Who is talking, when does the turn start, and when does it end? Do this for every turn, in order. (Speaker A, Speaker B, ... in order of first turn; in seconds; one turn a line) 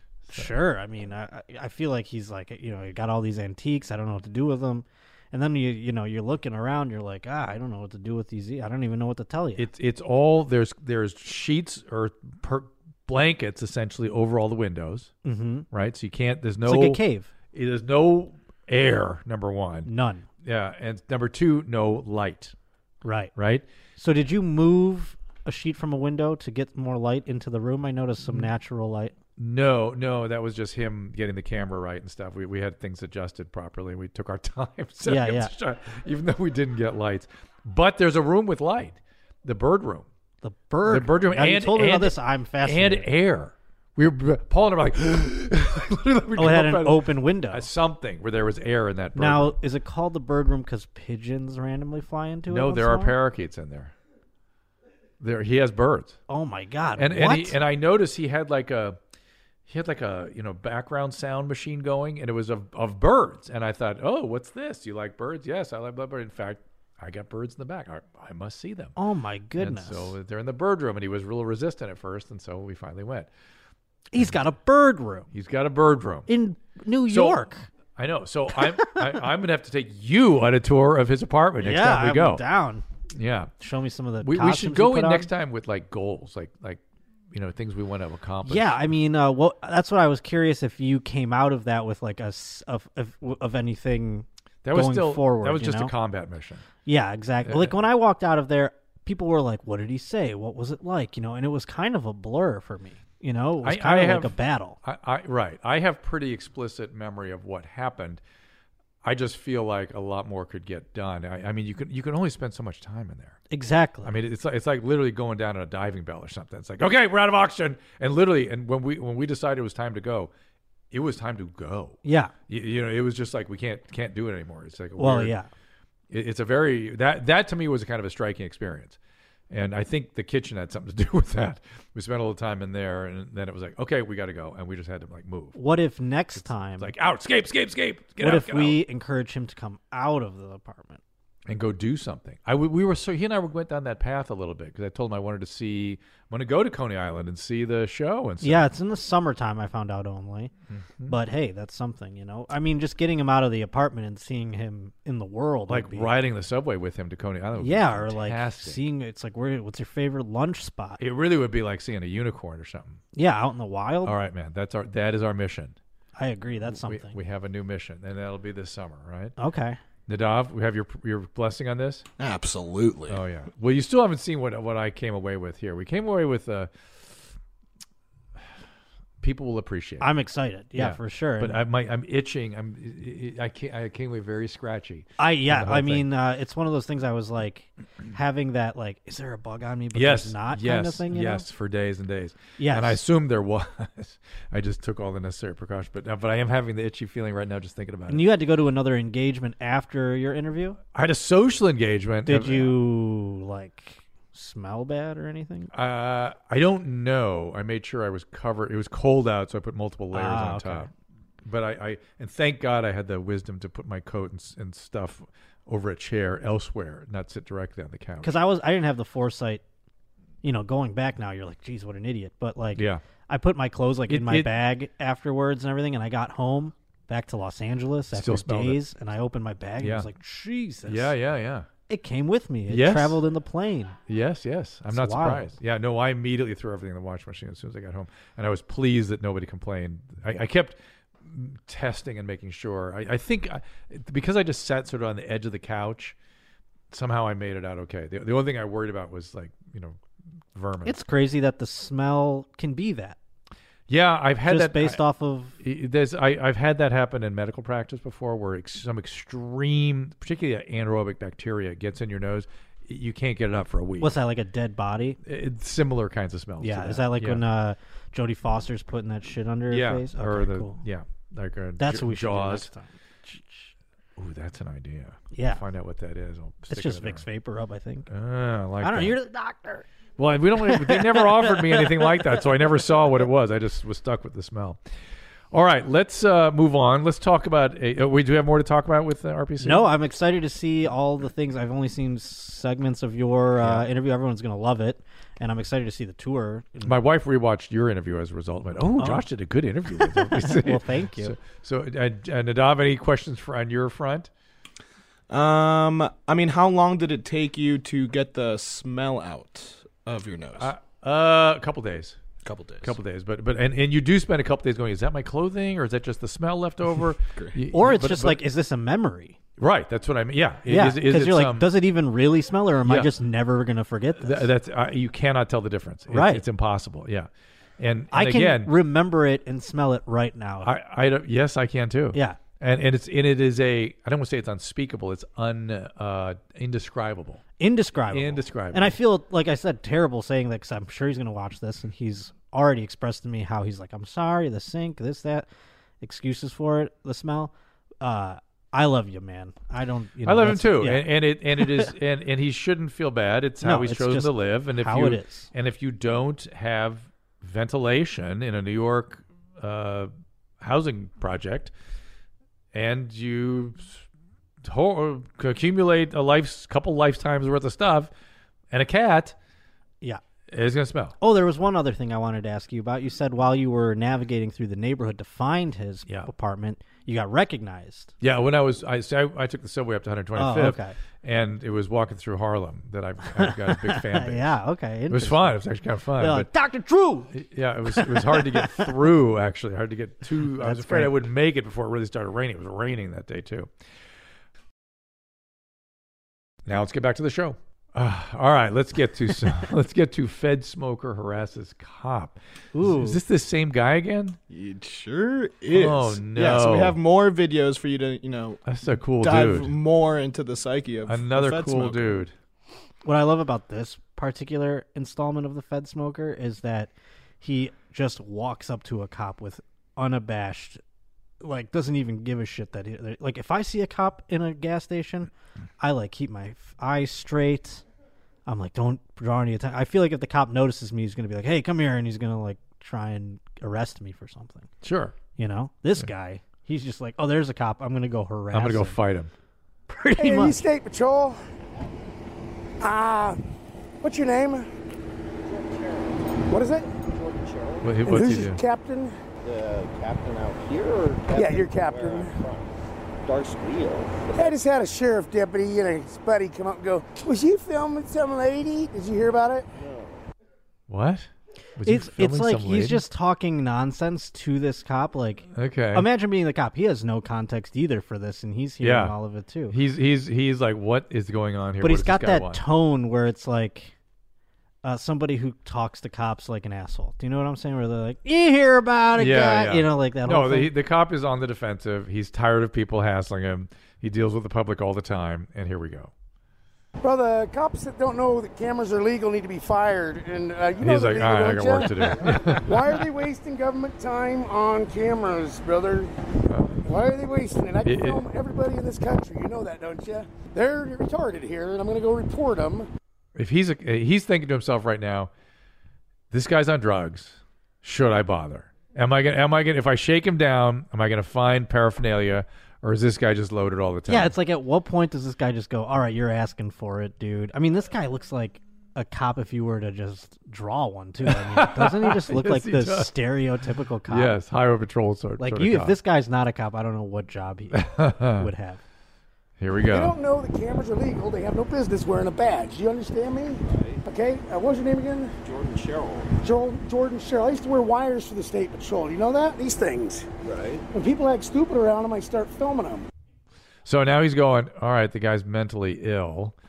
Speaker A: 0.3-0.5
Speaker B: 0.3-9.7
Speaker A: 9.6-15.1
Speaker B: 15.2-15.7
Speaker A: 15.7-17.0
Speaker B: 16.6-17.3
Speaker A: 17.5-19.9
Speaker B: 19.9-20.3
Speaker A: 20.4-22.5
Speaker B: 23.0-23.3
Speaker A: 23.4-23.6
Speaker B: 24.0-29.1
Speaker A: 28.2-28.5
Speaker A: 29.4-40.1
Speaker B: 35.0-35.5
Speaker B: 40.4-43.1
Speaker A: 40.9-49.5
Speaker B: 46.4-47.7
Speaker B: 49.1-53.2
Speaker A: 52.5-53.9
Speaker A: 55.2-56.2
Speaker B: 56.3-57.5
Speaker A: 57.0-59.0
Speaker A: 59.6-68.9
Speaker B: 69.0-70.1
Speaker A: 69.6-73.3
Speaker B: 74.1-75.3
Speaker A: 75.3-76.3
Speaker B: 76.3-77.7
Speaker A: 77.1-77.4
Speaker A: 78.0-82.4
Speaker B: 78.6-79.2
Speaker B: 81.6-82.8
Speaker A: 83.1-83.5
Speaker B: 83.6-85.3
Speaker A: 84.2-86.8
Speaker A: 87.3-88.8
Speaker B: 88.4-95.9
Speaker A: 94.6-96.6
Speaker B: 96.8-104.8
Speaker A: 97.4-97.8
Speaker A: 103.6-108.2
Speaker A: 109.0-113.4
Speaker B: 113.5-114.1
Speaker A: 114.0-120.3
Speaker A: 120.9-125.3
Speaker B: 122.0-122.3
Speaker B: 125.0-125.5
Speaker A: 126.1-129.0
Speaker A: 129.5-135.6
Speaker B: 135.5-136.9
Speaker A: 136.8-138.8
Speaker B: 138.2-141.0
Speaker A: 141.5-148.7
Speaker B: 148.4-150.5
Speaker A: 150.7-151.2
Speaker B: 151.1-156.1
Speaker A: 155.7-158.8
Speaker B: 157.6-161.0
Speaker A: 161.0-163.0
Speaker B: 163.1-164.2
Speaker A: 164.0-165.8
Speaker B: 166.2-167.2
Speaker A: 166.6-169.3
Speaker B: 169.4-169.8
Speaker A: 170.1-172.1
Speaker C: 172.2-173.2
Speaker A: 173.1-177.3
Speaker A: 179.2-180.1
Speaker B: 180.0-181.6
Speaker A: 180.8-186.1
Speaker B: 185.2-191.4
Speaker A: 189.9-198.3
Speaker B: 192.6-193.0
Speaker B: 198.1-200.8
Speaker A: 200.9-202.8
Speaker B: 202.2-205.7
Speaker A: 205.7-210.9
Speaker B: 210.1-210.9
Speaker A: 211.4-218.3
Speaker B: 218.2-219.6
Speaker B: 220.4-231.1
Speaker A: 222.8-223.0
Speaker A: 224.1-224.5
Speaker A: 228.1-228.8
Speaker A: 229.8-230.1
Speaker A: 230.8-231.7
Speaker B: 231.9-234.0
Speaker A: 232.7-233.2
Speaker A: 234.1-246.2
Speaker B: 234.9-235.5
Speaker A: 246.9-250.0
Speaker A: 250.5-251.0
Speaker B: 250.8-253.2
Speaker A: 253.9-255.0
Speaker B: 254.4-255.6
Speaker A: 255.6-264.2
Speaker B: 264.0-265.2
Speaker A: 265.2-267.4
Speaker B: 266.6-270.8
Speaker A: 269.7-272.7
Speaker B: 271.8-273.7
Speaker A: 274.2-277.2
Speaker B: 275.3-275.6
Speaker B: 276.7-278.1
Speaker A: 278.1-279.1
Speaker B: 278.8-279.9
Speaker A: 280.2-284.8
Speaker B: 280.6-282.4
Speaker A: 285.5-289.9
Speaker B: 289.6-297.0
Speaker A: 293.6-293.9
Speaker A: 296.8-304.3
Speaker B: 299.0-299.2
Speaker B: 299.9-301.4
Speaker C: 305.3-310.7
Speaker A: 310.6-312.2
Speaker C: 312.4-312.9
Speaker A: 312.8-318.4
Speaker B: 317.7-319.4
Speaker A: 319.6-321.7
Speaker B: 320.7-324.5
Speaker A: 322.8-323.1
Speaker A: 324.2-328.7
Speaker B: 326.1-326.4
Speaker B: 328.1-330.7
Speaker A: 330.6-337.4
Speaker B: 332.1-332.4
Speaker B: 337.6-345.5
Speaker A: 338.1-339.0
Speaker B: 346.0-351.9
Speaker A: 350.2-361.7
Speaker B: 353.6-355.5
Speaker A: 362.7-364.0
Speaker A: 364.6-368.1
Speaker A: 368.7-369.4
Speaker A: 370.5-371.1
Speaker B: 371.2-378.1
Speaker A: 378.2-384.6
Speaker B: 380.4-381.0
Speaker B: 383.3-385.6
Speaker A: 385.1-386.5
Speaker B: 386.2-387.3
Speaker A: 387.3-393.7
Speaker B: 387.9-388.9
Speaker B: 390.4-391.2
Speaker A: 396.6-404.4
Speaker B: 402.7-403.2
Speaker C: 404.5-408.7
Speaker A: 405.7-407.0
Speaker A: 408.6-409.7
Speaker C: 409.2-412.2
Speaker A: 411.1-412.3
Speaker B: 413.0-420.8
Speaker B: 421.4-427.8
Speaker B: 428.4-434.7
Speaker A: 434.8-435.1
Speaker B: 435.4-439.0
Speaker A: 438.5-439.3
Speaker B: 439.9-440.6
Speaker D: 440.2-441.4
Speaker D: 442.8-443.4
Speaker D: 444.0-444.7
Speaker E: 445.4-446.4
Speaker D: 446.5-446.9
Speaker E: 446.9-448.1
Speaker A: 447.8-448.6
Speaker D: 448.0-449.1
Speaker E: 449.4-452.7
Speaker D: 451.3-452.4
Speaker E: 453.2-454.6
Speaker D: 454.3-459.7
Speaker E: 459.7-460.2
Speaker A: 460.9-463.0
Speaker B: 461.8-469.8
Speaker A: 465.5-466.1
Speaker A: 468.8-469.1
Speaker A: 469.7-472.6
Speaker B: 471.8-473.9
Speaker B: 474.8-480.7
Speaker A: 479.1-486.1
Speaker D: 487.0-496.1
Speaker A: 490.8-493.0
Speaker A: 496.5-496.8
Speaker D: 496.8-502.9
Speaker A: 497.8-498.2
Speaker A: 503.4-505.3
Speaker A: 506.3-514.3
Speaker B: 514.1-524.4
Speaker A: 521.2-523.1
Speaker A: 524.1-526.0
Speaker B: 525.4-528.8
Speaker A: 527.7-528.5
Speaker A: 529.6-530.1
Speaker D: 529.9-535.3
Speaker E: 533.6-534.0
Speaker E: 535.4-536.3
Speaker D: 536.4-540.3
Speaker E: 540.4-540.8
Speaker D: 540.9-543.0
Speaker A: 543.8-546.5